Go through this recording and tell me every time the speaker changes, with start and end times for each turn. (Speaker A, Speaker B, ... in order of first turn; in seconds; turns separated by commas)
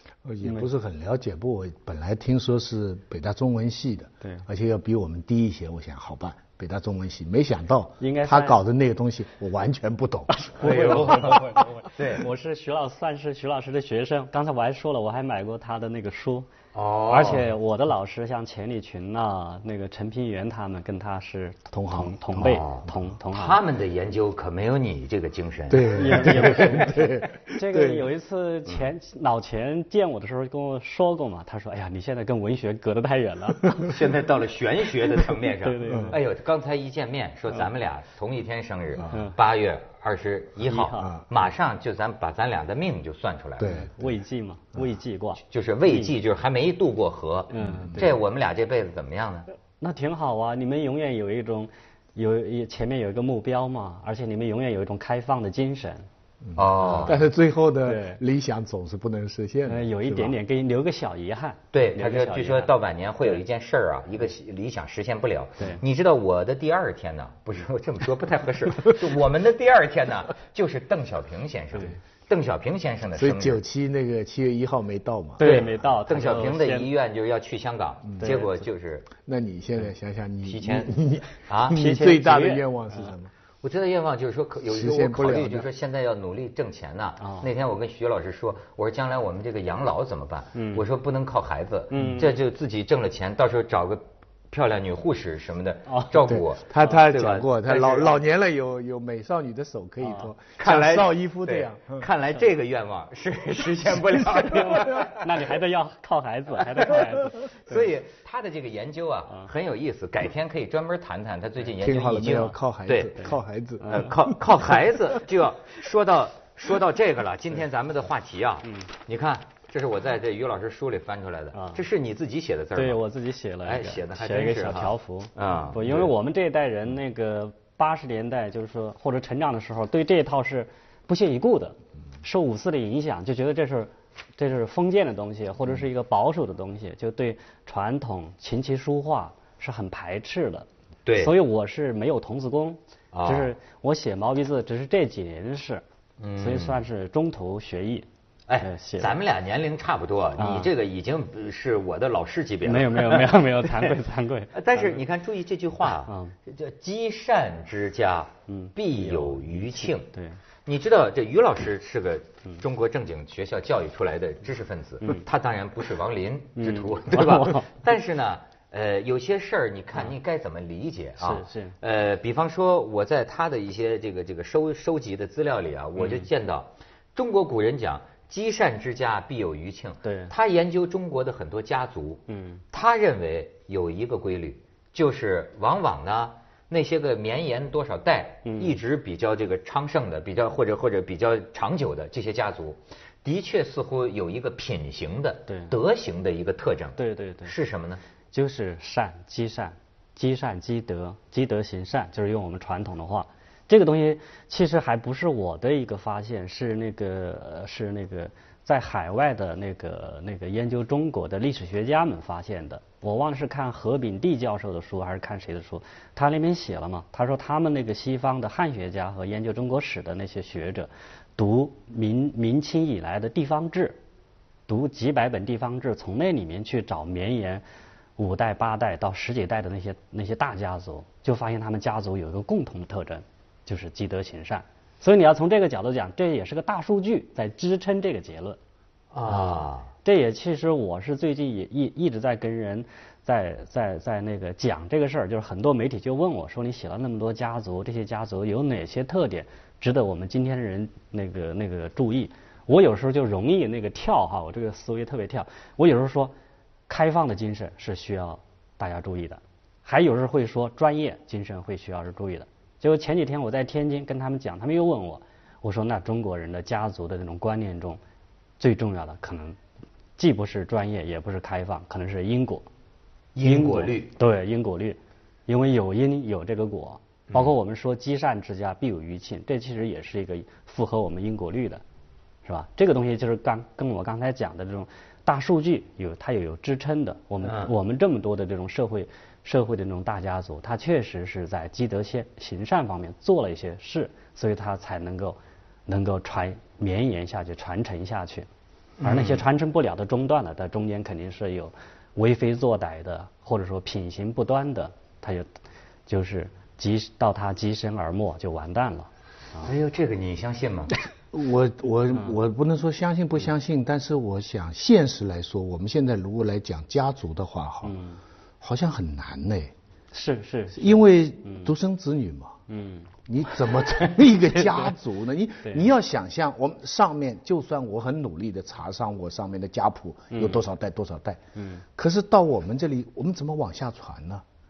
Speaker A: 0.2-11.4, Speaker B: 0.4-0.7, Speaker B: 8.0-8.6, Speaker B: 10.3-16.5, Speaker C: 10.6-12.2, Speaker C: 16.7-17.5, Speaker B: 17.1-23.6, Speaker A: 21.7-22.6, Speaker C: 22.4-26.6, Speaker A: 25.7-28.0, Speaker B: 25.9-33.9, Speaker C: 33.8-43.8, Speaker B: 35.6-36.2, Speaker A: 35.9-36.1, Speaker B: 39.1-39.4, Speaker B: 40.6-41.1, Speaker A: 43.6-43.9, Speaker B: 43.7-46.2, Speaker C: 45.5-49.5, Speaker B: 47.5-48.2, Speaker A: 47.6-48.0, Speaker B: 49.8-56.1, Speaker A: 56.5-60.4, Speaker C: 56.5-57.2, Speaker B: 56.8-57.2, Speaker B: 57.8-58.2, Speaker B: 59.7-62.7, Speaker C: 61.7-73.6, Speaker A: 73.1-75.5, Speaker B: 75.4-76.9, Speaker C: 75.4-79.1, Speaker B: 78.2-78.5, Speaker A: 79.2-83.3, Speaker C: 80.4-80.9, Speaker C: 81.5-81.8, Speaker B: 81.7-83.1, Speaker C: 83.6-98.2, Speaker A: 84.7-85.7, Speaker B: 87.2-87.5, Speaker B: 90.5-90.8, Speaker B: 91.9-92.3, Speaker B: 95.9-96.3, Speaker A: 96.3-102.1, Speaker B: 100.0-100.3, Speaker C: 100.6-105.3, Speaker A: 104.1-105.1, Speaker B: 104.5-107.5, Speaker C: 106.9-113.2, Speaker A: 111.8-114.4, Speaker B: 113.8-114.1, Speaker C: 113.9-123.0, Speaker B: 121.5-121.8, Speaker B: 122.8-145.8, Speaker C: 123.6-126.1, Speaker C: 141.0-141.3, Speaker C: 143.1-143.5, Speaker C: 146.2-146.8, Speaker B: 146.4-148.1, Speaker C: 148.5-153.9, Speaker B: 148.6-149.2, Speaker B: 150.4-150.7, Speaker B: 152.6-155.0, Speaker C: 154.5-160.1, Speaker B: 156.1-156.3, Speaker B: 158.5-160.4, Speaker C: 160.7-198.0, Speaker B: 166.6-167.7, Speaker B: 171.2-171.7, Speaker B: 176.0-176.3, Speaker B: 180.0-180.3, Speaker B: 182.3-182.6, Speaker B: 188.4-188.8, Speaker B: 195.5-195.7, Speaker B: 197.0-197.5, Speaker B: 198.3-224.0, Speaker B: 224.7-227.6, Speaker B: 228.2-238.6, Speaker C: 239.1-239.9, Speaker B: 239.2-256.3, Speaker B: 256.9-268.0, Speaker B: 268.6-269.6, Speaker B: 270.2-272.6, Speaker C: 273.3-274.1, Speaker B: 273.4-281.8, Speaker B: 282.4-298.5, Speaker C: 287.4-287.7, Speaker C: 299.0-299.4, Speaker B: 299.0-305.5, Speaker B: 306.1-309.7, Speaker C: 309.6-310.9, Speaker A: 311.3-318.0, Speaker B: 317.8-318.2, Speaker A: 318.6-319.7, Speaker B: 320.1-321.7, Speaker A: 320.7-322.6, Speaker B: 322.7-323.1, Speaker A: 323.3-331.4, Speaker B: 330.3-330.6, Speaker B: 331.6-331.8, Speaker A: 331.9-334.4